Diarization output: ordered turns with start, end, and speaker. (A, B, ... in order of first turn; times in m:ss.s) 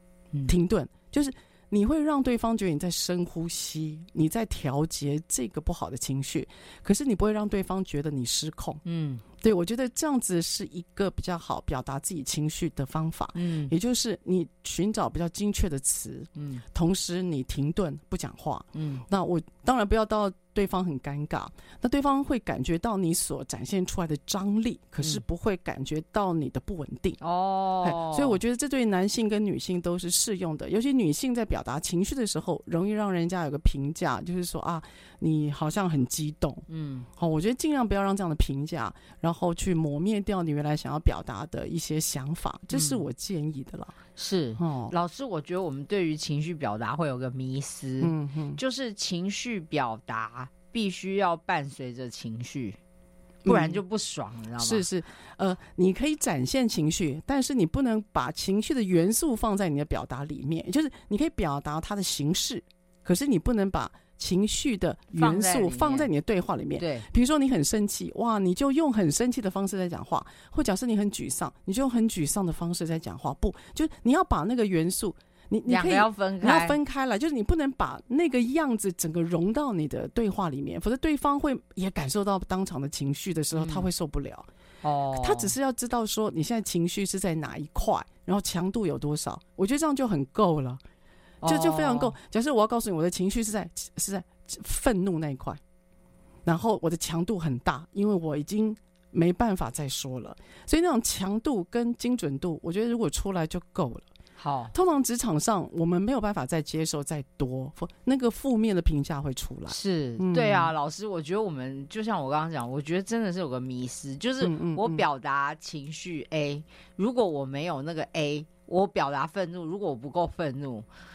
0:00.5-0:08.8 A
0:08.8-0:09.2 B
0:09.4-0:27.2 A
0:13.3-0:13.7 B
0:16.4-0:16.6 B
0:18.7-0:19.0 B
0:27.2-0:28.4 B
0:27.8-0:36.6 A
0:36.7-0:37.1 B
0:37.2-0:44.0 A
0:42.7-0:43.0 B
0:44.2-0:52.8 B
0:44.6-0:44.9 A
0:48.0-0:48.6 A
0:53.4-0:53.8 A
0:53.4-0:54.8 B
0:54.6-1:24.5 A
1:05.1-1:06.1 B
1:06.8-1:07.1 B
1:15.7-1:16.8 B
1:23.6-1:23.9 B
1:24.8-1:25.5 B
1:25.1-1:30.8 A
1:31.4-1:32.1 B
1:31.4-1:35.6 A
1:36.4-1:44.1 A
1:44.4-1:44.7 B
1:44.7-1:50.7 A
1:49.7-2:00.9 B
1:54.4-1:55.0 A